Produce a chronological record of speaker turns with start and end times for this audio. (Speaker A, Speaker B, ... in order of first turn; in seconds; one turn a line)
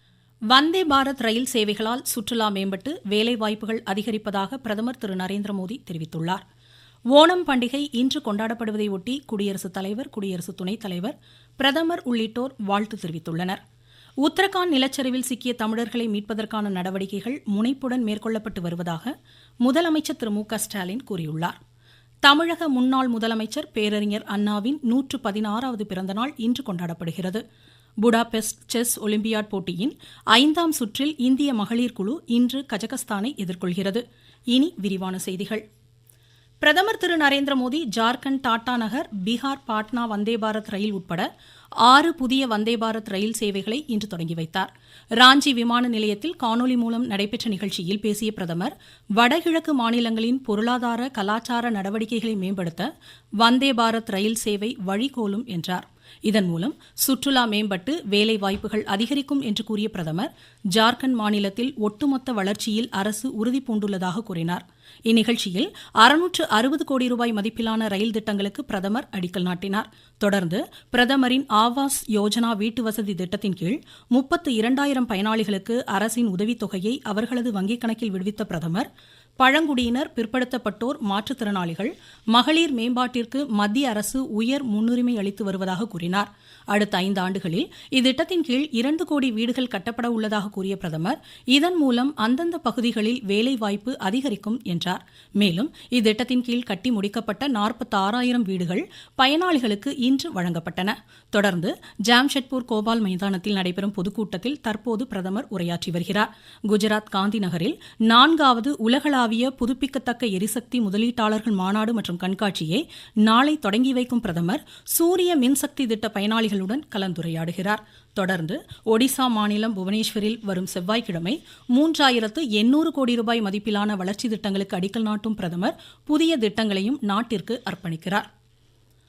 Speaker A: 0.5-6.4
Speaker A: 7.1-13.6
Speaker A: 14.2-19.1
Speaker A: 19.6-21.6
Speaker A: 22.2-27.4
Speaker A: 28.0-35.6
Speaker A: 36.6-41.3
Speaker A: 41.8-52.9
Speaker A: 53.4-78.9
Speaker A: 79.4-128.2